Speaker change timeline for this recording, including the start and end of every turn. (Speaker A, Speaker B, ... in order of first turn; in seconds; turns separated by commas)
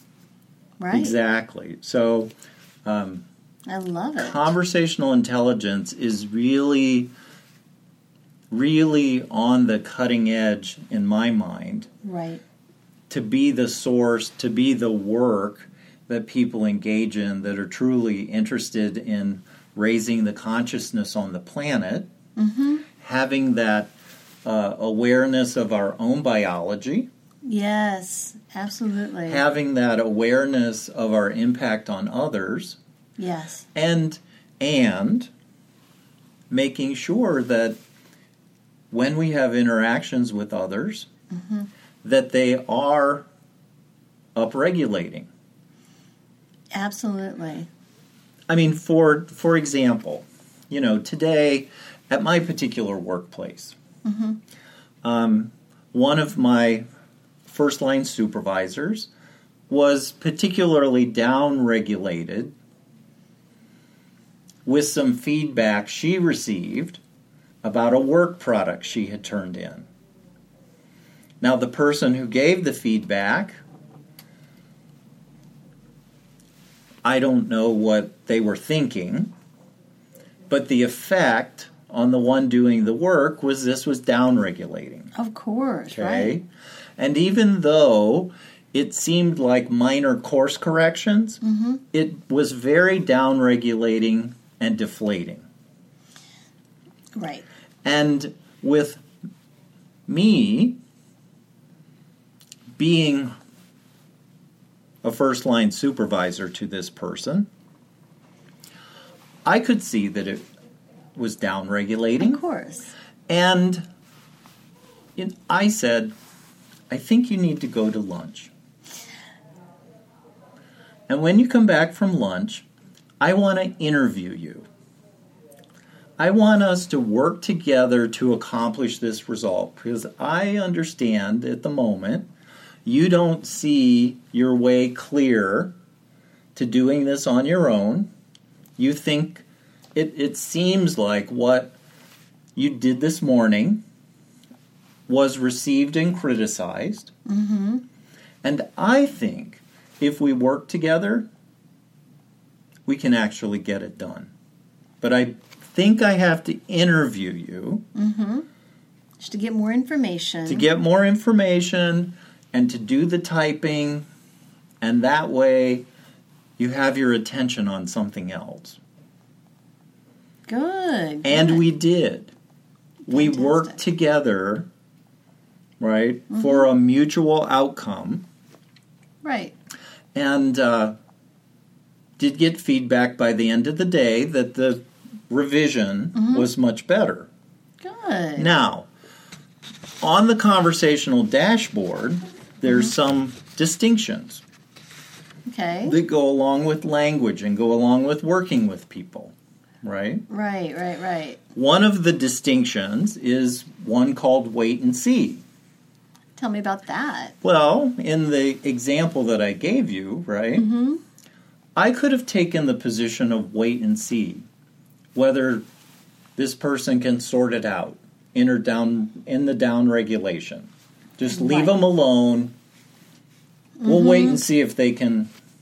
Speaker A: 0.8-1.1, Speaker B: 0.9-2.3, Speaker B: 2.8-3.2, Speaker A: 3.7-4.5, Speaker B: 4.2-7.1, Speaker B: 8.5-11.9, Speaker A: 12.0-12.4, Speaker B: 13.1-22.1, Speaker A: 22.4-22.9, Speaker B: 23.0-23.9, Speaker B: 24.4-27.1, Speaker A: 27.4-29.4, Speaker B: 29.3-32.8, Speaker A: 33.2-33.7, Speaker B: 33.7-35.3, Speaker B: 36.5-37.8, Speaker B: 38.9-41.1, Speaker A: 41.3-41.7, Speaker B: 42.0-43.2, Speaker B: 44.3-45.3, Speaker A: 46.7-47.7, Speaker B: 48.5-53.8, Speaker A: 54.0-54.4, Speaker B: 55.0-56.8, Speaker B: 57.5-59.1, Speaker B: 59.7-62.5, Speaker B: 64.6-67.0, Speaker B: 67.6-69.9, Speaker B: 71.4-73.6, Speaker B: 77.0-79.3, Speaker B: 80.5-85.1, Speaker A: 85.1-86.4, Speaker B: 85.9-86.5, Speaker B: 87.0-91.4, Speaker A: 91.4-91.8, Speaker B: 91.9-95.5, Speaker A: 97.1-97.5, Speaker B: 97.8-99.0, Speaker B: 100.1-100.8, Speaker B: 102.8-103.3, Speaker B: 105.0-107.5, Speaker B: 109.4-110.4, Speaker B: 111.1-112.4, Speaker A: 112.2-112.9, Speaker B: 113.3-113.8, Speaker B: 115.2-116.1, Speaker B: 116.9-118.5, Speaker B: 121.1-122.7, Speaker B: 123.2-124.7, Speaker B: 126.2-132.3, Speaker B: 132.8-135.7, Speaker B: 136.5-138.1, Speaker B: 138.8-139.4, Speaker B: 139.9-141.7, Speaker B: 142.6-143.8, Speaker B: 145.1-147.1, Speaker A: 147.2-147.8, Speaker B: 148.4-151.3, Speaker B: 152.8-154.3, Speaker B: 155.0-157.8, Speaker A: 157.9-158.4, Speaker A: 159.2-160.7, Speaker B: 160.5-164.1, Speaker B: 164.8-165.8, Speaker B: 166.6-168.8, Speaker A: 170.5-171.6, Speaker B: 171.2-172.3, Speaker A: 173.1-173.8, Speaker B: 173.1-174.7, Speaker B: 175.8-178.2, Speaker A: 176.3-176.6, Speaker A: 179.2-179.5, Speaker B: 180.1-180.9, Speaker B: 182.2-187.3, Speaker A: 186.1-186.5, Speaker A: 187.8-188.5, Speaker B: 188.4-188.9, Speaker B: 190.0-194.4, Speaker A: 195.4-196.0, Speaker B: 195.8-200.2, Speaker A: 200.3-201.4, Speaker B: 201.6-205.4, Speaker A: 206.4-207.3, Speaker B: 207.4-210.7, Speaker A: 210.6-211.0, Speaker B: 211.8-214.5, Speaker B: 215.1-215.6, Speaker B: 216.3-222.5, Speaker A: 221.3-221.8, Speaker A: 223.8-224.4, Speaker B: 223.8-225.3